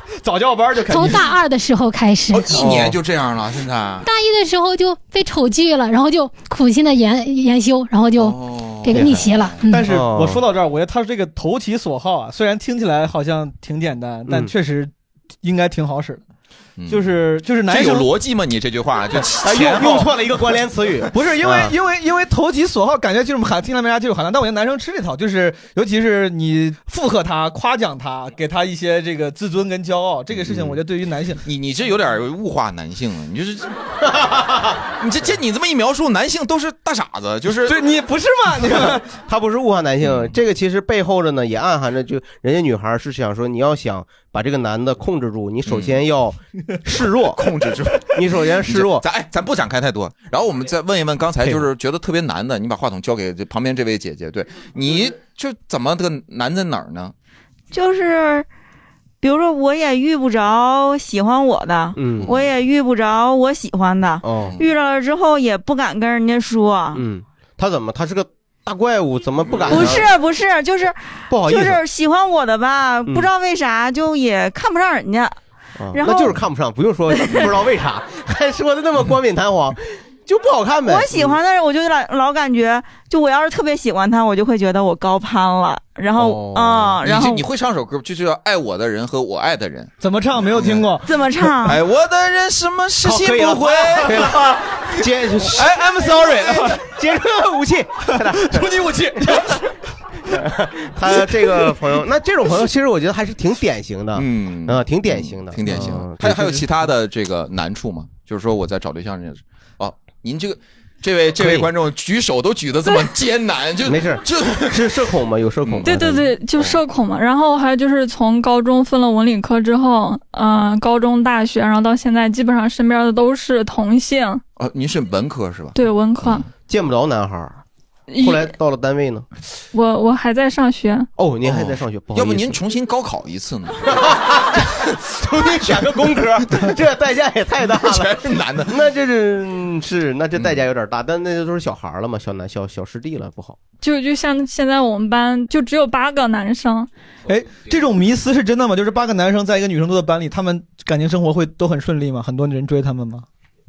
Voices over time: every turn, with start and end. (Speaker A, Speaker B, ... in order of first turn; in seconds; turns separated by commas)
Speaker A: 0.2-1.3, Speaker B: 0.9-2.8, Speaker C: 2.3-4.1, Speaker D: 2.5-3.0, Speaker B: 4.0-9.9, Speaker C: 8.2-9.5, Speaker D: 8.9-10.4, Speaker A: 9.7-14.9, Speaker D: 14.3-14.5, Speaker A: 15.4-16.2, Speaker C: 16.8-17.1, Speaker A: 16.9-18.1, Speaker C: 17.6-20.1, Speaker D: 19.4-21.7, Speaker A: 19.6-20.0, Speaker A: 21.1-31.4, Speaker C: 31.4-33.8, Speaker D: 34.2-34.8, Speaker C: 35.0-37.8, Speaker A: 37.6-39.1, Speaker D: 39.0-47.5, Speaker C: 40.0-40.3, Speaker C: 45.7-46.0, Speaker C: 47.3-57.1, Speaker D: 48.1-49.0, Speaker E: 57.7-58.5, Speaker E: 59.2-67.0, Speaker D: 62.0-62.4, Speaker D: 64.2-64.6, Speaker D: 67.0-70.0, Speaker C: 69.6-70.0, Speaker E: 69.7-75.4, Speaker D: 71.3-71.8, Speaker D: 75.8-81.4, Speaker E: 75.9-76.3, Speaker E: 77.1-77.5, Speaker E: 80.8-87.5, Speaker D: 86.2-87.0, Speaker C: 87.0-89.9, Speaker A: 90.0-91.1, Speaker C: 90.5-90.8, Speaker E: 91.0-91.8, Speaker C: 91.7-94.3, Speaker D: 93.0-98.7, Speaker A: 94.2-94.6, Speaker A: 95.5-96.8, Speaker A: 98.1-99.7, Speaker D: 100.3-106.6, Speaker C: 104.2-114.8, Speaker D: 111.4-111.7, Speaker D: 113.8-116.3, Speaker F: 115.8-124.4, Speaker C: 124.6-126.5, Speaker F: 125.8-126.5, Speaker D: 126.7-127.6, Speaker F: 128.1-128.5, Speaker D: 128.2-129.3, Speaker F: 129.7-131.1, Speaker D: 131.2-132.6, Speaker C: 131.4-134.0, Speaker D: 133.9-143.6, Speaker C: 137.7-138.7, Speaker F: 143.8-146.9, Speaker A: 147.3-153.2